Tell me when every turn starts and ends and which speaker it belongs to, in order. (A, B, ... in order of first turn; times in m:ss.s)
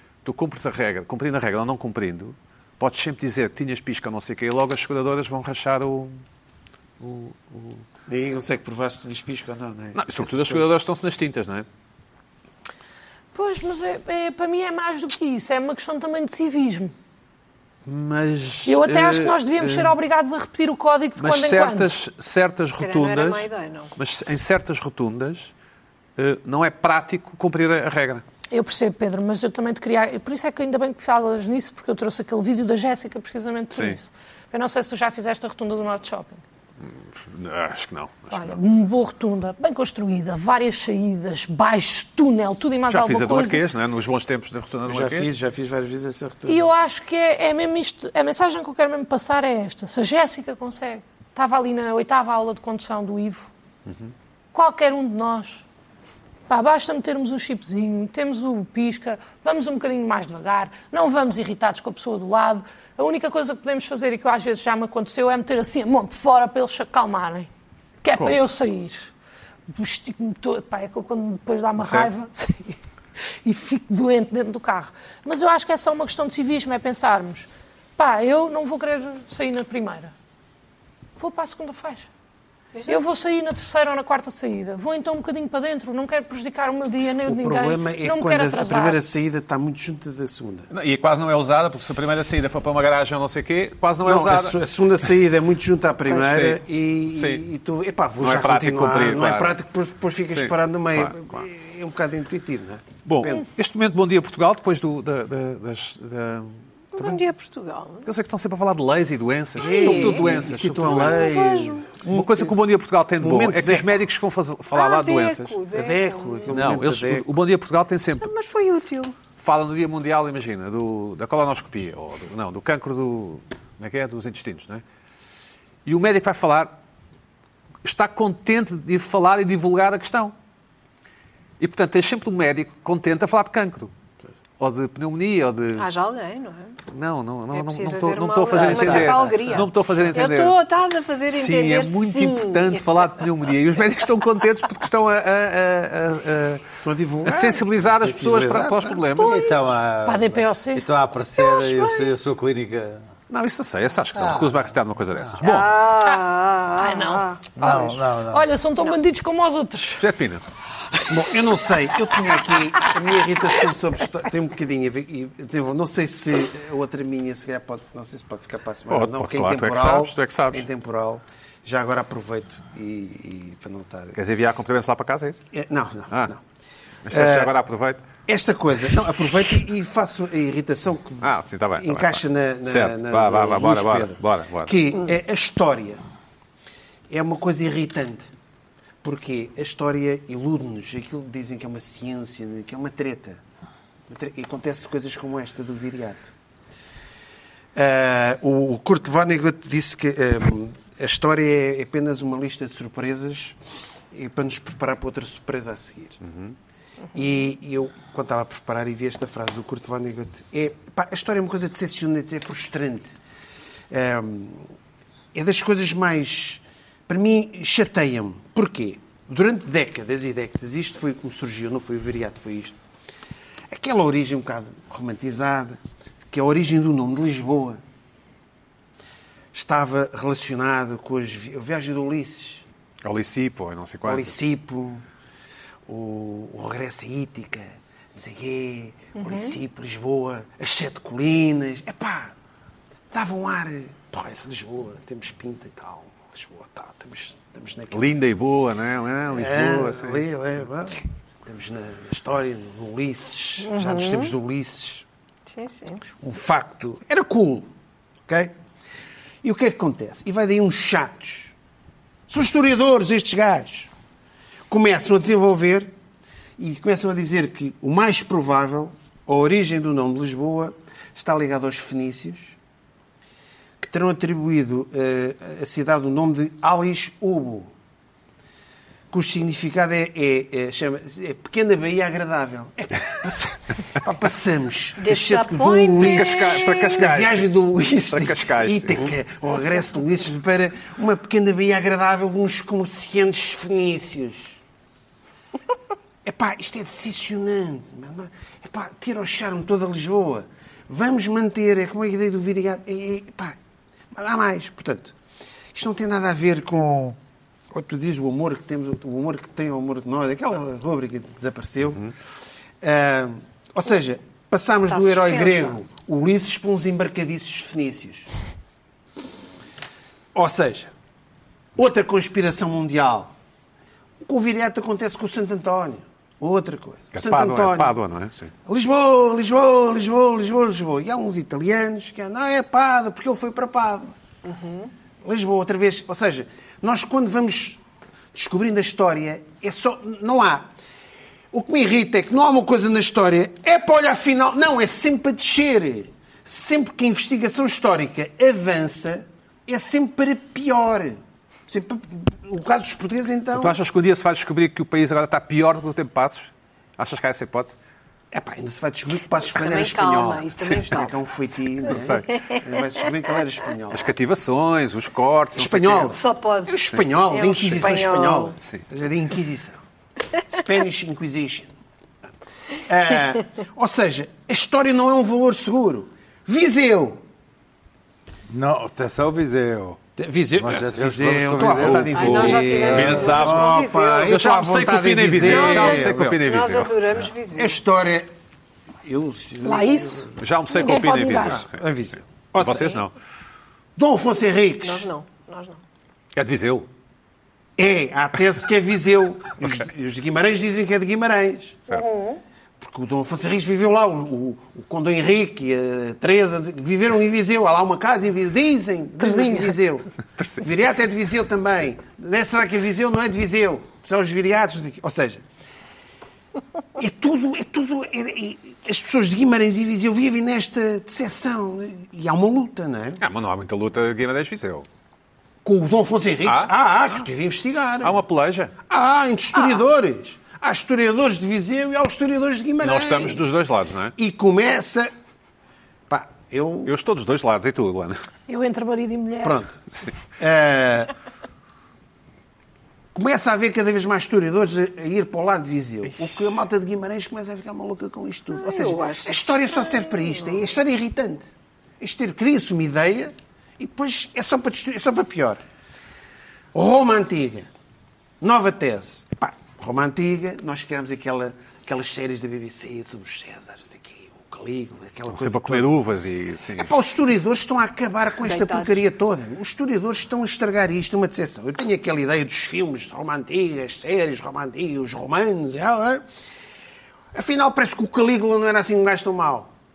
0:00.2-0:06.2 A
0:07.0-0:07.8 A
0:08.1-0:10.7 B
0:10.0-0:11.7 A
0:13.3-0:16.9 C
0:17.9-0:20.0 A
0:18.7-0:22.0 C
0:21.2-0:25.5 A
0:22.8-0:23.9 D
0:26.2-0:28.2 A
0:28.5-0:36.4 C
0:33.7-0:34.0 A
0:36.8-0:38.6 A
0:38.3-0:43.6 C
0:42.9-0:45.3 A
0:44.9-0:46.7 B
0:46.5-0:53.5 C
0:54.5-0:55.6 C
0:56.5-1:07.5 C
1:08.0-1:09.1 C
1:08.1-1:08.4 A
1:09.7-1:12.8 C
1:11.8-1:12.1 A
1:13.4-1:20.1 C
1:21.2-1:22.1 C
1:22.7-1:23.0 D
1:22.9-1:29.0 C
1:27.2-1:30.7 B
1:30.7-1:34.6 A
1:34.0-1:43.4 B
1:36.1-1:36.6 A
1:37.1-1:37.4 A
1:38.2-1:39.6 A
1:40.3-1:41.4 A
1:43.0-1:47.2 A
1:46.9-1:48.1 D
1:48.0-1:51.3 A
1:49.6-1:52.6 B
1:49.6-1:50.4 D
1:50.9-1:51.9 D
1:52.1-1:55.6 A
1:53.2-1:53.9 B
1:54.7-1:56.7 D
1:55.7-1:57.3 B
1:56.5-1:58.3 A
1:58.2-1:59.2 D
1:59.4-2:04.8 A
2:05.9-2:06.7 A
2:07.8-2:10.3 A
2:11.6-2:13.9 A
2:14.6-2:15.9 A
2:15.8-2:16.8 D
2:16.9-2:20.6 A
2:17.5-2:23.1 D
2:18.5-2:19.6 B
2:21.3-2:26.7 A
2:26.8-2:29.0 B
2:27.2-2:29.4 A
2:29.2-2:33.0 E
2:30.0-2:30.9 C
2:31.4-2:32.1 D
2:33.3-2:35.8 A
2:34.2-2:34.6 E
2:35.4-2:37.4 D
2:36.8-2:40.0 C
2:37.6-2:38.5 E
2:40.0-2:40.4 A
2:41.1-2:54.2 B
2:48.9-2:50.7 A
2:54.2-2:55.4 A
2:55.5-2:56.4 B
2:57.1-2:58.1 A
2:57.1-2:57.5 B
2:58.3-3:06.0 B
3:01.2-3:04.8 A
3:07.1-3:08.3 B
3:09.0-3:13.4 B
3:14.1-3:16.3 B
3:17.8-3:23.6 B
3:24.1-3:26.2 B
3:26.2-3:26.5 A
3:27.1-3:33.2 B
3:33.9-3:34.7 B
3:35.3-3:42.8 B
3:43.7-3:45.8 B
3:46.3-3:47.8 B
3:49.5-3:52.6 B
3:53.0-3:54.4 A
3:54.0-3:55.0 B
3:55.9-4:02.3 B
3:59.2-3:59.5 D
4:03.1-4:08.2 B
4:07.9-4:10.2 A
4:09.3-4:15.1 B
4:13.6-4:14.3 D
4:15.5-4:16.0 D
4:16.2-4:17.7 B
4:18.3-4:18.5 B
4:19.4-4:21.5 B
4:22.3-4:23.9 B
4:24.7-4:25.9 B
4:26.6-4:32.6 B
4:33.8-4:37.7 B
4:39.1-4:54.6 B
4:45.0-4:47.1 D
4:46.0-4:47.5 A
4:48.1-4:49.1 A
4:56.2-5:03.6 B
5:04.1-5:05.1 B
5:05.7-5:07.2 B
5:07.7-5:12.1 B
5:12.8-5:18.3 B
5:14.9-5:15.8 D
5:20.3-5:20.9 B
5:21.8-5:23.3 B
5:24.2-5:28.0 B
5:27.1-5:28.5 A
5:28.7-5:34.1 B
5:34.4-5:34.9 D
5:35.2-5:37.8 B
5:38.3-5:40.7 B
5:41.5-5:53.8 B
5:53.5-5:57.8 A
5:58.3-6:04.1 B
5:59.5-6:01.2 D
6:01.9-6:02.3 A
6:02.3-6:02.6 D
6:03.9-6:06.2 A
6:05.6-6:09.8 B
6:06.1-6:08.6 D
6:10.5-6:11.7 B
6:12.9-6:17.2 B
6:18.5-6:20.0 E
6:20.2-6:26.4 B
6:20.6-6:23.4 E
6:21.9-6:24.4 D
6:22.9-6:23.7 A
6:24.2-6:27.0 A
6:25.4-6:27.8 D
6:27.5-6:28.3 B
6:29.0-6:30.3 B
6:29.6-6:31.6 C
6:30.4-6:31.8 A
6:31.6-6:33.0 B
6:32.6-6:33.1 A
6:34.0-6:35.1 B
6:34.8-6:35.8 D
6:36.4-6:36.9 A
6:37.8-6:41.9 B
6:41.9-6:42.4 D
6:42.8-6:55.4 B
6:49.2-6:49.8 C
6:57.0-7:03.2 B
7:03.2-7:04.9 A
7:05.6-7:08.2 B
7:06.4-7:06.7 A
7:08.0-7:08.7 A
7:08.9-7:13.5 B
7:12.8-7:14.1 A
7:14.2-7:15.1 B
7:16.1-7:16.9 B
7:16.8-7:18.2 A
7:18.5-7:19.6 C
7:19.4-7:19.8 B
7:20.3-7:21.1 B
7:23.1-7:35.6 B
7:28.5-7:30.6 D
7:36.7-7:37.7 B
7:38.4-7:45.9 B
7:45.3-7:46.9 A
7:46.8-7:56.2 B
7:48.4-7:49.0 D
7:57.3-7:59.7 B